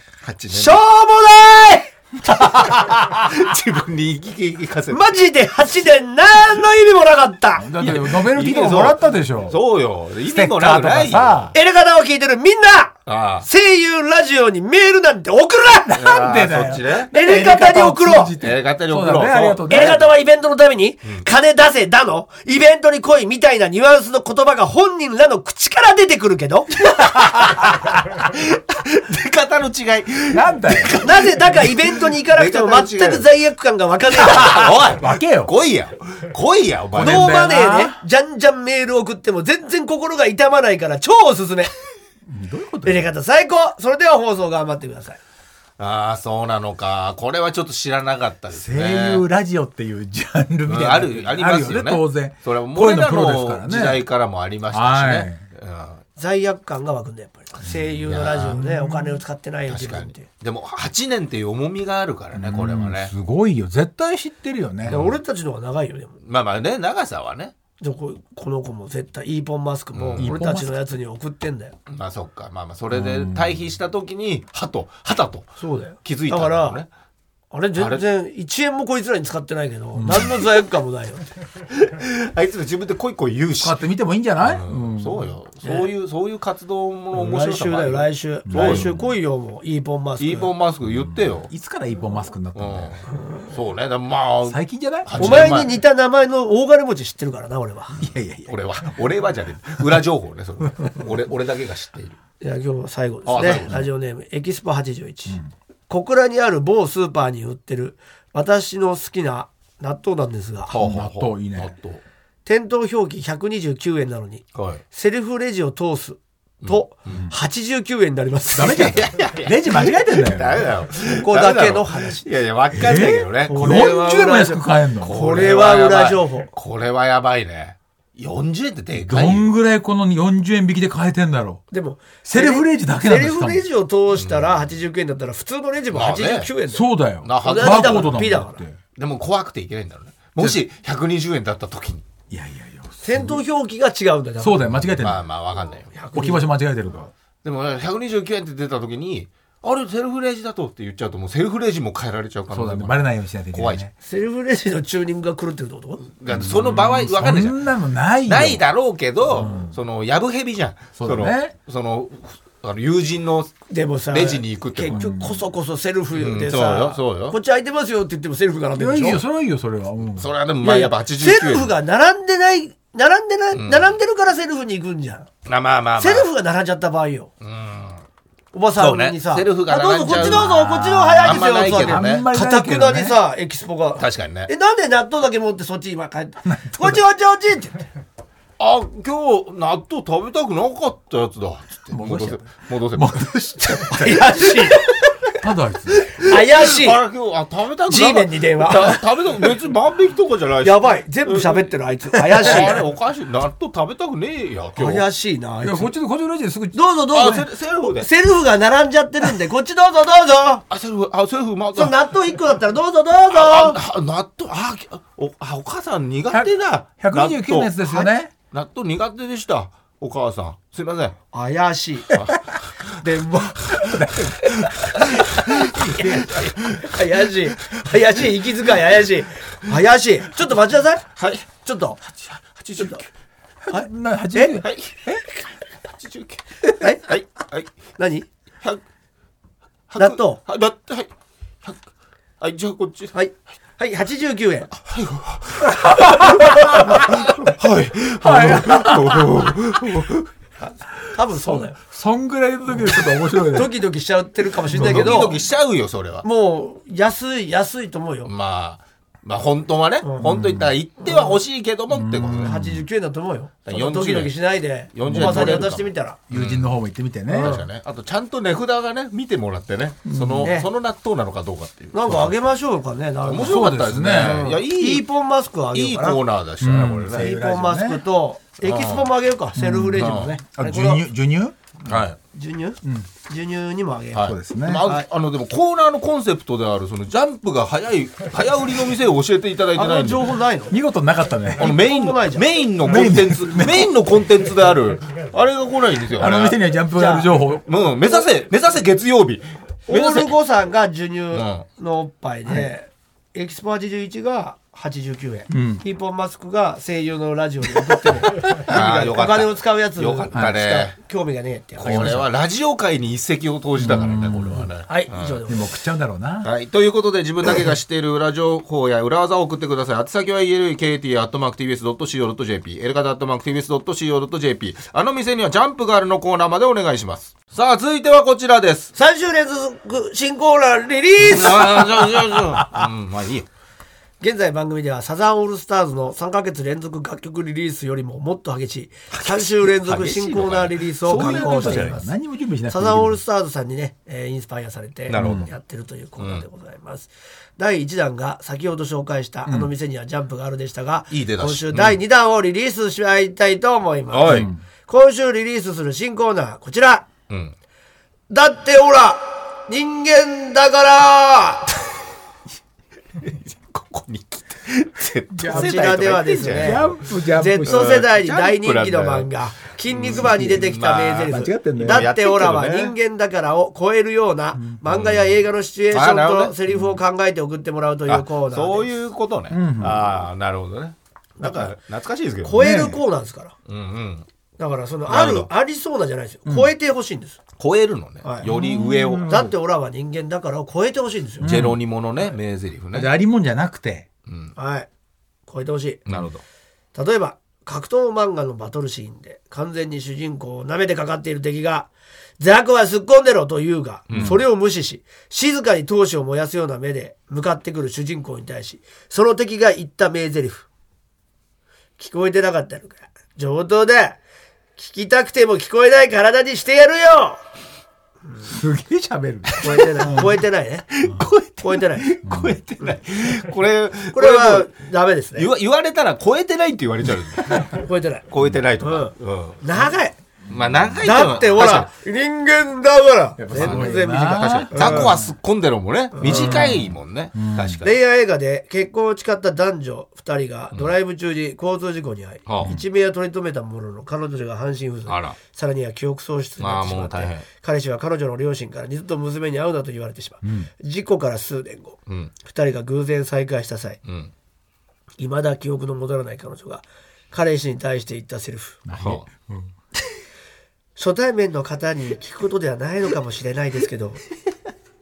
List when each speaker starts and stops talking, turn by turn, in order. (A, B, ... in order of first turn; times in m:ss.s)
0:00.2-0:00.8 A
0:00.5-0:01.9 B
0:02.3-0:05.1 A
0:04.9-0:07.7 B
0:07.6-0:09.6 C
0:07.8-0:11.5 A
0:10.3-0:11.6 C
0:11.5-0:16.0 B
0:13.1-0:13.5 A
0:15.9-0:20.1 C
0:16.0-0:17.1 A
0:17.1-0:18.3 B
0:18.4-0:20.0 A
0:19.7-0:27.1 B
0:26.9-0:33.3 A
0:30.3-0:31.0 C
0:31.0-0:34.9 B
0:34.1-0:37.4 A
0:35.0-0:35.5 C
0:36.9-0:38.0 C
0:37.0-0:41.7 B
0:42.3-0:43.1 C
0:42.8-0:45.2 B
0:45.8-0:49.2 A
0:48.5-0:54.0 C
0:50.7-0:56.0 A
0:54.7-0:55.4 C
0:56.2-1:00.3 B
0:57.6-0:59.2 C
0:58.0-0:58.6 A
0:59.7-1:03.1 A
1:02.3-1:05.0 C
1:04.8-1:05.2 A
1:04.8-1:06.2 B
1:06.2-1:07.5 A
1:07.8-1:11.8 B
1:09.9-1:10.3 A
1:10.2-1:10.8 C
1:11.9-1:16.9 A
1:12.9-1:13.6 C
1:15.6-1:16.8 B
1:17.5-1:21.2 B
1:17.8-1:18.0 A
1:20.0-1:20.4 C
1:21.7-1:23.8 A
1:23.6-1:25.3 C
1:24.4-1:28.9 A
1:25.6-1:25.9 B
1:27.1-1:30.5 B
1:28.5-1:29.1 C
1:30.2-1:31.5 A
1:30.9-1:33.0 C
1:32.6-1:35.8 A
1:34.5-1:35.6 C
1:35.2-1:38.0 B
1:38.0-1:39.0 C
1:38.5-1:42.2 A
1:42.4-1:50.8 B
1:43.3-1:43.8 A
1:50.7-1:52.0 A
1:50.7-1:51.8 C
1:52.4-1:59.0 B
1:54.6-1:54.8 A
1:56.6-1:57.2 A
1:58.5-2:00.7 C
1:58.7-2:03.9 A
2:01.1-2:02.3 B
2:02.7-2:05.2 C
2:03.4-2:06.5 B
2:05.0-2:09.5 A
2:09.0-2:11.6 C
2:11.7-2:18.6 B
2:12.3-2:13.7 C
2:14.2-2:14.7 A
2:15.9-2:16.5 A
2:16.7-2:18.8 C
2:17.2-2:18.2 A
2:19.0-2:22.1 A
2:22.3-2:23.4 C
2:23.0-2:24.8 B
2:24.4-2:25.2 C
2:25.0-2:25.9 A
2:25.9-2:26.5 B
2:26.1-2:27.1 C
2:27.4-2:33.9 A
2:32.5-2:33.9 C
2:34.0-2:36.1 B
2:36.2-2:37.7 A
2:36.3-2:38.6 C
2:38.3-2:45.0 A
2:39.3-2:39.8 C
2:41.0-2:41.6 C
2:43.7-2:49.2 B
2:44.9-2:45.4 C
2:46.1-2:47.4 A
2:48.7-2:50.3 C
2:50.2-2:51.7 A
2:50.6-2:55.3 B
2:53.5-2:53.9 A
2:55.5-2:56.3 A
2:56.0-2:57.3 B
2:57.4-2:58.0 A
2:58.5-3:07.9 B
2:58.8-3:02.2 A
3:00.1-3:03.2 C
3:04.0-3:04.5 A
3:06.4-3:07.0 C
3:08.6-3:13.8 A
3:11.9-3:14.6 C
3:13.9-3:14.9 B
3:15.3-3:16.2 C
3:16.0-3:21.7 A
3:16.2-3:17.0 B
3:17.9-3:19.0 B
3:20.6-3:22.8 B
3:22.4-3:25.0 A
3:24.8-3:25.9 B
3:25.6-3:26.8 C
3:26.7-3:30.6 B
3:27.1-3:28.1 A
3:30.7-3:32.0 A
3:31.7-3:33.8 B
3:33.3-3:37.8 A
3:36.3-3:38.3 C
3:38.5-3:41.2 A
3:41.3-3:42.2 B
3:42.1-3:43.0 A
3:42.9-3:43.8 B
3:43.8-3:46.8 C
3:45.4-3:46.4 A
3:46.0-3:52.0 B
3:51.2-3:51.5 A
3:52.3-3:53.0 A
3:53.7-3:55.2 C
3:53.7-3:54.6 B
3:54.6-3:55.1 A
3:56.0-3:57.7 A
3:58.0-3:58.3 B
3:59.9-4:01.1 A
4:00.0-4:00.4 B
4:02.4-4:03.2 A
4:03.1-4:04.7 B
4:04.8-4:10.3 A
4:06.2-4:06.8 C
4:08.2-4:09.6 C
4:11.1-4:11.8 B
4:11.3-4:13.8 C
4:13.5-4:15.4 B
4:14.7-4:15.4 C
4:14.7-4:16.2 A
4:16.2-4:18.3 B
4:18.2-4:22.6 A
4:20.0-4:20.4 B
4:20.2-4:20.7 C
4:21.0-4:21.4 B
4:21.9-4:22.9 C
4:22.4-4:26.2 B
4:23.7-4:24.4 A
4:24.9-4:26.7 A
4:25.1-4:25.7 C
4:26.3-4:27.6 C
4:27.3-4:27.6 B
4:27.4-4:32.3 A
4:30.0-4:30.5 C
4:30.4-4:30.7 B
4:31.9-4:36.2 B
4:33.3-4:35.1 A
4:33.4-4:34.5 C
4:35.7-4:37.3 A
4:36.6-4:38.0 C
4:37.2-4:41.0 B
4:38.6-4:39.1 A
4:39.6-4:42.0 C
4:40.0-4:40.3 A
4:41.8-4:42.2 A
4:42.3-4:44.3 B
4:42.8-4:43.1 C
4:44.1-4:50.3 A
4:44.2-4:44.9 C
4:49.7-4:50.8 B
4:50.7-4:51.8 C
4:51.6-4:56.6 A
4:51.6-4:52.6 B
4:52.8-4:54.0 C
4:56.1-4:57.7 C
4:56.9-4:57.4 B
4:57.6-5:00.4 A
4:59.9-5:12.2 B
5:01.3-5:01.7 A
5:05.5-5:05.8 C
5:08.4-5:11.0 A
5:11.8-5:15.4 A
5:11.8-5:12.3 C
5:13.8-5:14.7 C
5:14.9-5:15.6 B
5:15.5-5:16.5 C
5:16.4-5:28.9 A
5:29.0-5:32.2 B
5:31.2-5:33.5 A
5:34.2-5:42.1 B
5:39.1-5:42.0 A
5:41.0-5:43.2 C
5:42.7-5:57.1 B
5:45.1-5:45.5 A
5:45.2-5:45.5 C
5:46.2-5:46.4 A
5:49.4-5:49.7 C
5:51.1-5:52.0 A
5:54.1-5:54.5 A
5:54.3-5:54.6 C
5:57.3-5:57.5 A
5:58.3-6:01.8 B
6:03.2-6:07.0 A
6:05.3-6:05.9 C
6:05.5-6:18.9 B
6:06.5-6:07.9 C
6:07.7-6:09.3 A
6:09.9-6:13.0 A
6:10.1-6:10.7 C
6:11.3-6:12.1 C
6:14.9-6:15.4 A
6:15.9-6:16.6 A
6:18.1-6:22.6 A
6:19.5-6:20.1 C
6:21.4-6:21.8 B
6:22.4-6:23.5 B
6:22.6-6:23.0 C
6:23.7-6:24.3 A
6:24.6-6:27.4 B
6:25.1-6:25.5 A
6:26.5-6:26.7 C
6:27.6-6:29.5 A
6:28.4-6:29.4 C
6:29.2-6:31.5 B
6:31.4-6:31.8 C
6:31.4-6:33.1 A
6:32.9-6:34.1 C
6:34.3-6:34.6 A
6:34.6-6:34.9 B
6:35.5-6:36.0 B
6:36.1-6:36.4 A
6:36.9-6:50.7 B
6:44.1-6:44.4 A
6:44.1-6:44.4 C
6:52.0-6:54.2 B
6:54.8-6:57.4 B
6:58.4-7:00.4 C
6:59.5-7:00.3 A
6:59.6-7:00.9 B
7:00.9-7:04.7 A
7:01.0-7:01.3 C
7:01.6-7:02.1 B
7:02.2-7:02.6 C
7:04.1-7:05.5 B
7:05.4-7:07.8 A
7:07.7-7:08.3 B
7:08.3-7:09.8 A
7:08.8-7:10.2 B
7:10.5-7:11.9 A
7:10.5-7:11.2 C
7:11.0-7:15.2 B
7:13.4-7:15.3 C
7:13.6-7:18.0 A
7:16.2-7:16.8 B
7:16.2-7:17.8 C
7:17.8-7:34.0 B
7:22.5-7:22.8 A
7:25.1-7:25.4 A
7:26.6-7:27.4 A
7:30.4-7:30.7 C
7:32.1-7:32.3 A
7:34.0-7:34.3 A
7:35.2-7:38.8 B
7:38.9-7:39.7 C
7:39.0-7:39.3 A
7:41.0-7:44.2 B